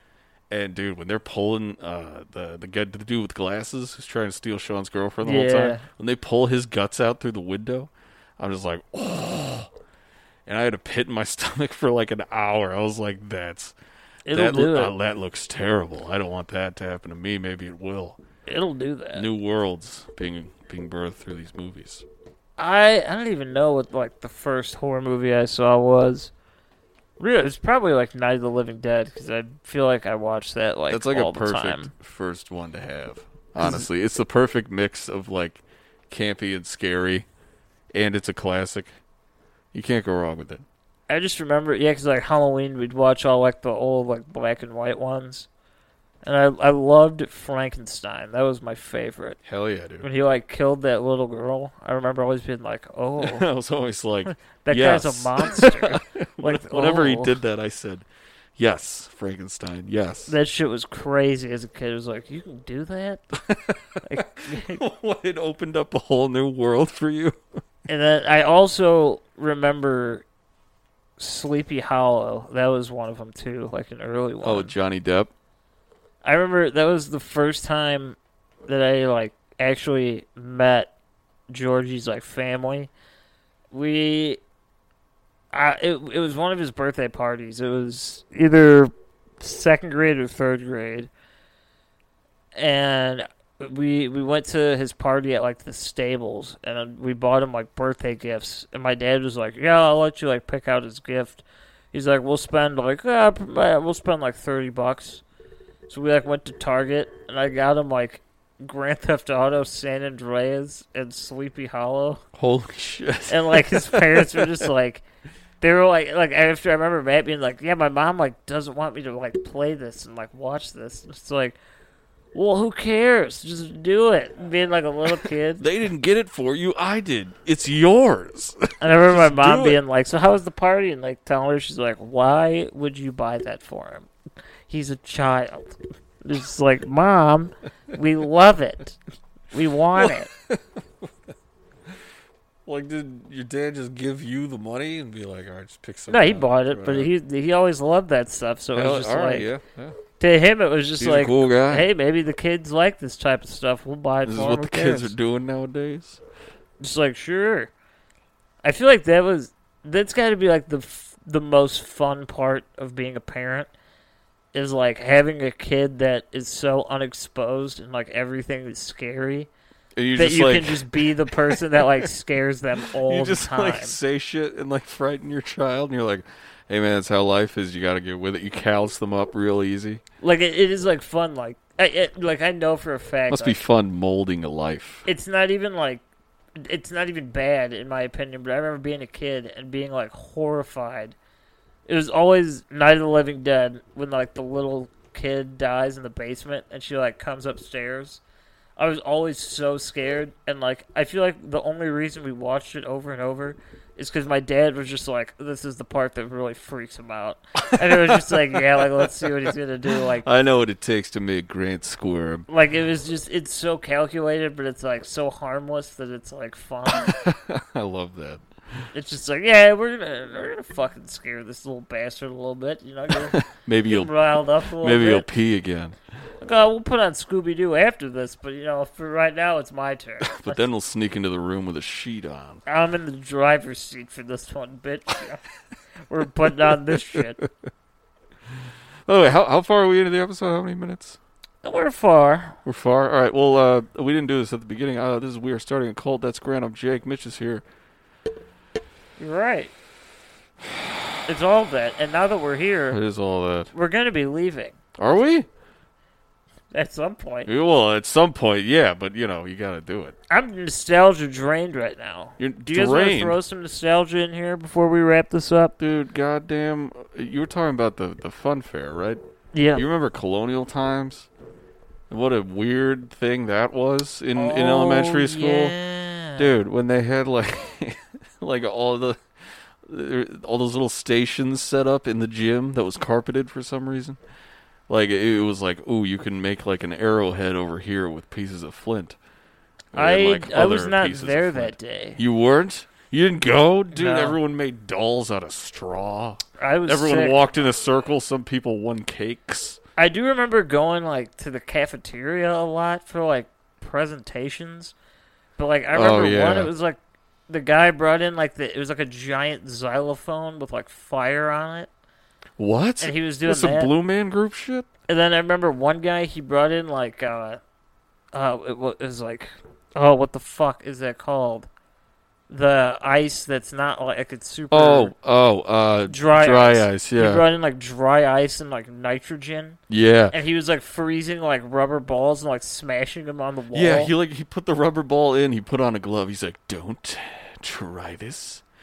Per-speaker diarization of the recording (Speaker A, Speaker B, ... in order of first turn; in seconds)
Speaker A: 0.5-9.7, 10.5-13.7, 14.3-18.2, 19.1-22.0, 30.9-37.2, 37.9-39.0, 39.7-40.6, 49.5-50.1, 53.2-58.0, 58.6-60.3, 63.3-67.4, 74.4-75.3, 112.3-114.7, 125.6-129.8, 140.0-140.7, 142.7-147.1, 148.8-150.0, 151.0-151.9, 154.3-156.2, 169.9-171.8, 173.0-180.0, 183.3-185.1, 207.8-209.5, 210.2-212.5, 216.9-218.4, 223.3-224.1, 224.8-226.0, 230.2-232.6, 236.9-237.5, 239.1-241.2, 242.7-247.6, 252.9-253.7, 255.0-255.5, 257.5-260.1, 262.4-263.4, 265.8-269.2, 269.8-271.3, 272.1-275.7, 276.4-279.2, 279.8-284.2, 284.9-289.2, 289.9-299.8, 305.9-306.7, 312.6-314.9, 324.7-327.5, 329.9-330.4, 333.7-338.6
Speaker B: 5.2-5.8, 14.3-14.9, 18.5-19.3, 22.6-26.3, 27.2-31.9, 41.1-45.5, 46.2-49.4, 50.0-53.5, 54.4-57.4, 60.3-63.4, 64.0-64.8, 67.9-70.2, 71.2-74.7, 76.2-80.9, 81.5-82.9, 83.7-84.4, 85.5-91.1, 92.5-105.2, 105.9-112.2, 113.3-115.0, 115.6-121.6, 122.3-125.6, 128.8-134.1, 134.7-139.0, 139.5-140.3, 146.1-149.5, 150.2-155.1, 156.8-157.7, 158.6-163.7, 164.5-169.5, 170.2-174.0, 180.2-183.6, 185.1-186.0, 186.6-191.2, 191.9-198.2, 198.8-210.3, 212.5-217.1, 218.9-223.4, 223.9-225.3, 226.4-230.6, 232.7-235.4, 236.1-237.4, 241.6-242.6, 249.2-249.7, 251.3-253.0, 253.7-254.8, 256.7-257.5, 260.3-265.8, 269.5-269.8, 274.4-276.5, 289.9-292.2, 293.9-294.4, 296.6-297.4, 300.0-304.9, 305.6-311.9, 313.0-313.9, 315.1-317.6, 318.3-321.7, 322.5-325.1, 326.1-329.8, 330.3-334.1